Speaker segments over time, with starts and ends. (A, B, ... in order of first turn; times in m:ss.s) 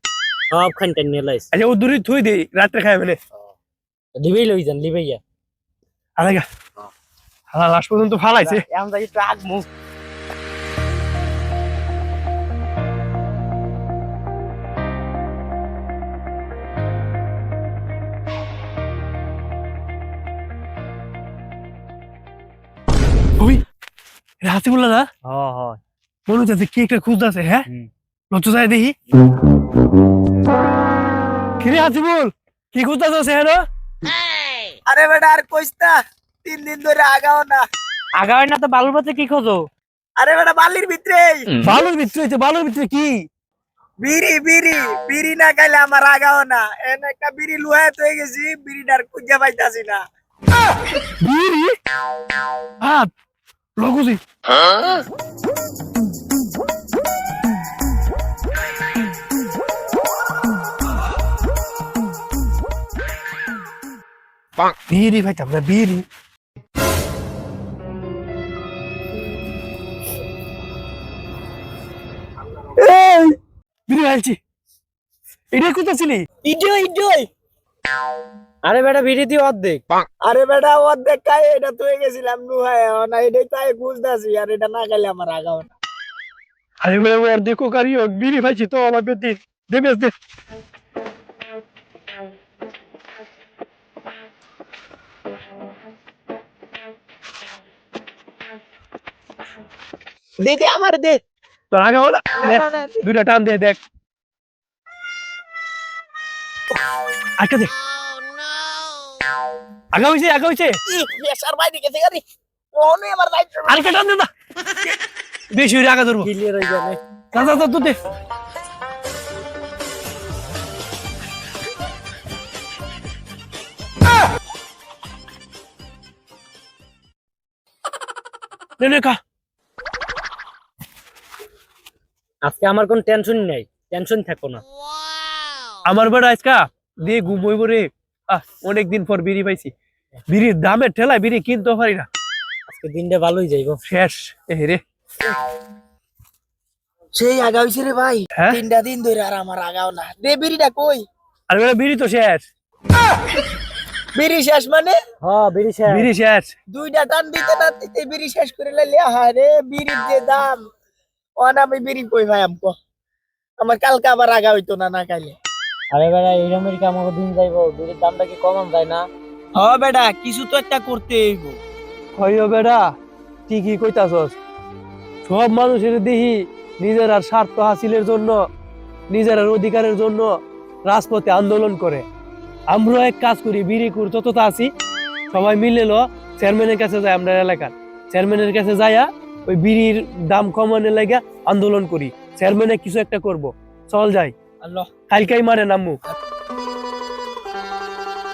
0:00.5-0:01.5 A
0:01.5-0:03.2 B
0:04.2-0:05.2 A
0:06.2-0:06.5 B
0:07.5-0:08.6 B
0:08.4-0:09.7 A
0:24.4-0:25.1 B
0:25.2-0:25.8 A
0:26.3-0:27.7 B
0:28.3-0:29.0 B
0:31.6-0:33.6 B
0:34.9-0:37.7 C
0:38.2-0:39.7 A
0:40.2-0:41.5 C
0:41.6-0:43.2 B
0:44.0-0:50.0 C
0:51.2-0:51.8 B
0:52.8-0:53.1 B
0:53.8-0:54.2 B
1:04.9-1:06.0 B
1:12.8-1:13.3 C
1:13.9-1:14.4 B
1:15.5-1:16.3 B
1:16.4-1:17.3 C
1:18.7-1:19.8 A
1:20.2-1:25.7 C
1:26.8-1:30.1 B
1:40.4-1:41.2 C
1:41.7-1:43.8 B
1:42.4-1:43.0 C
1:47.4-1:47.7 B
1:49.9-1:50.8 B
1:50.9-1:52.2 C
1:52.7-1:53.8 C
1:53.7-1:54.3 B
1:55.5-1:56.3 B
1:56.2-1:57.0 A
1:57.3-1:58.0 B
2:08.8-2:09.2 B
2:12.4-2:14.6 A
2:15.8-2:19.7 B
2:20.3-2:22.1 B
2:22.7-2:23.8 A
2:23.9-2:24.8 B
2:27.2-2:31.0 C
2:28.4-2:28.6 B
2:31.5-2:32.4 B
2:34.2-2:35.0 C
2:35.2-2:36.1 A
2:35.9-2:36.5 B
2:36.7-2:40.6 C
2:41.4-2:42.8 C
2:43.6-2:45.4 C
2:45.9-2:49.1 A
2:49.6-2:51.6 C
2:52.2-2:52.8 B
2:53.5-2:54.4 B
2:55.2-2:58.4 B
2:59.1-3:00.4 B
3:00.9-3:02.0 B
3:02.7-3:04.7 B
3:05.3-3:14.4 B
3:15.1-3:16.0 B